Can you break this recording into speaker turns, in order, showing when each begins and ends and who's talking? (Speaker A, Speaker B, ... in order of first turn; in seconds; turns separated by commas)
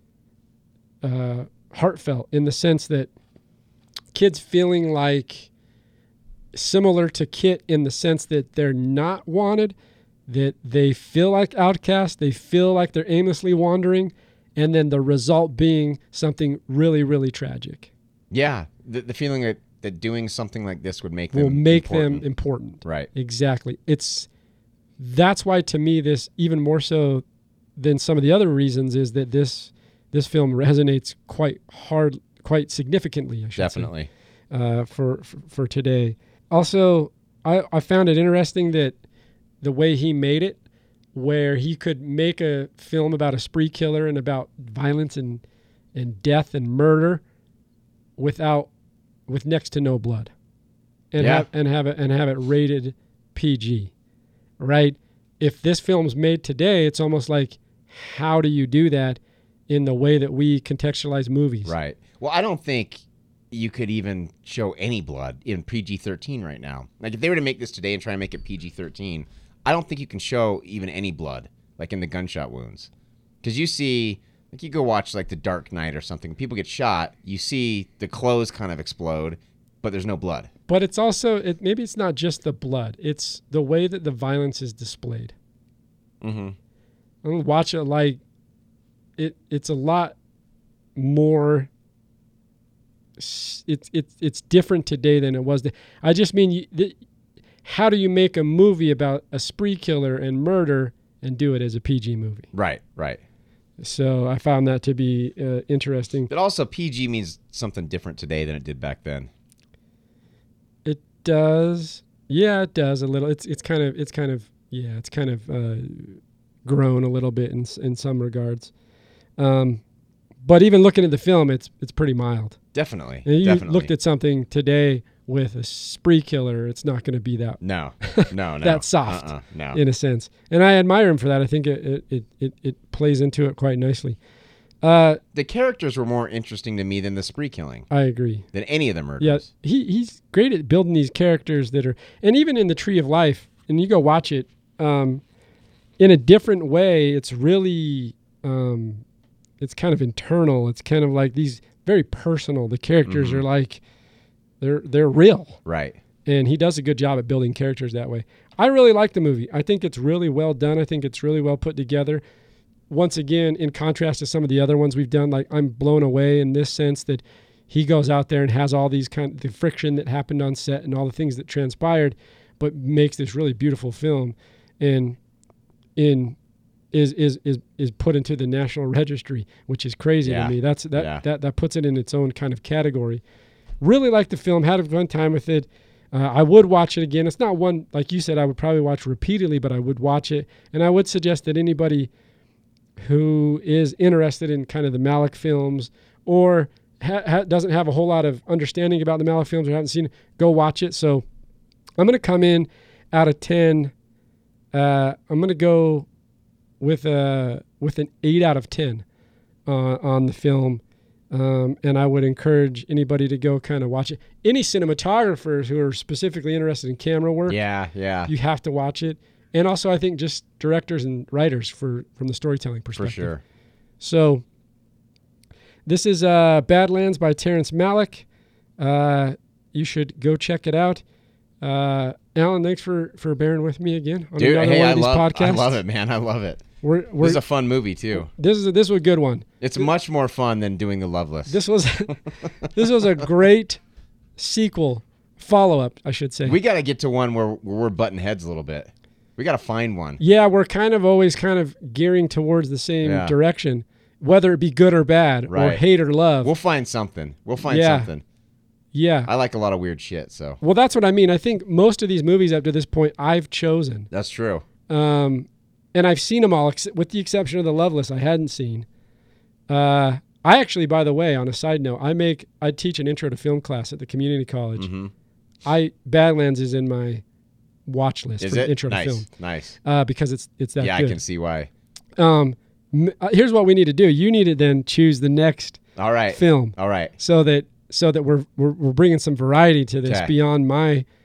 Speaker A: 1.0-3.1, Speaker A: 4.1-5.5, Speaker A: 6.5-9.7, Speaker A: 10.3-17.9, Speaker B: 18.3-22.2, Speaker A: 21.3-24.3, Speaker B: 22.8-23.1, Speaker A: 25.0-27.2, Speaker A: 27.8-33.9, Speaker B: 33.5-34.1, Speaker A: 34.5-39.0, Speaker A: 39.6-40.6, Speaker A: 41.1-45.4, Speaker A: 45.9-47.2, Speaker A: 48.2-48.7, Speaker A: 49.3-50.3, Speaker A: 51.1-53.9, Speaker B: 51.2-51.5, Speaker A: 54.6-61.7, Speaker B: 61.6-72.9, Speaker B: 73.4-80.5, Speaker A: 80.7-85.3, Speaker B: 86.2-86.5, Speaker A: 87.2-88.2, Speaker A: 89.2-90.1, Speaker A: 91.0-91.7, Speaker A: 93.2-97.0, Speaker A: 97.6-102.5, Speaker B: 102.5-103.2, Speaker A: 103.8-106.3, Speaker B: 106.3-109.3, Speaker A: 110.8-118.7, Speaker A: 119.4-119.8, Speaker A: 120.4-122.6, Speaker B: 122.7-123.9, Speaker A: 123.2-134.2, Speaker B: 127.6-129.8, Speaker A: 134.8-135.2, Speaker B: 135.3-137.9, Speaker A: 137.9-138.5, Speaker B: 138.5-139.4, Speaker A: 139.2-145.2, Speaker A: 146.0-149.0, Speaker A: 149.6-153.8, Speaker B: 153.1-153.4, Speaker A: 154.6-155.6, Speaker B: 155.7-156.0, Speaker A: 156.2-162.2, Speaker A: 162.9-175.2, Speaker A: 176.0-176.4, Speaker A: 176.9-183.2, Speaker B: 180.2-181.2, Speaker A: 183.8-192.1, Speaker A: 193.0-201.2, Speaker A: 202.0-203.9, Speaker A: 204.7-206.1, Speaker A: 206.8-209.0, Speaker A: 209.7-217.6, Speaker B: 217.5-218.3, Speaker A: 218.3-223.3, Speaker B: 222.9-223.4, Speaker A: 224.0-224.4, Speaker A: 225.8-228.2, Speaker A: 228.8-231.0, Speaker A: 231.6-235.8, Speaker B: 234.4-236.6, Speaker A: 236.8-237.4, Speaker B: 237.2-238.3, Speaker A: 238.1-239.6, Speaker B: 239.6-241.6, Speaker A: 241.5-243.8, Speaker A: 244.4-246.6, Speaker B: 246.4-250.2, Speaker A: 250.2-256.5, Speaker B: 253.0-253.3, Speaker B: 255.5-255.8, Speaker B: 256.4-258.2, Speaker A: 257.6-258.1, Speaker A: 258.9-259.3, Speaker B: 259.2-260.6, Speaker A: 260.6-264.1, Speaker B: 264.1-264.6, Speaker A: 264.9-268.9, Speaker A: 269.7-274.9, Speaker B: 274.8-275.1, Speaker A: 275.6-277.2, Speaker A: 277.9-279.3, Speaker B: 278.4-279.8, Speaker A: 279.8-281.2, Speaker B: 280.8-281.7, Speaker A: 282.2-291.0, Speaker B: 285.9-287.1, Speaker B: 290.1-290.3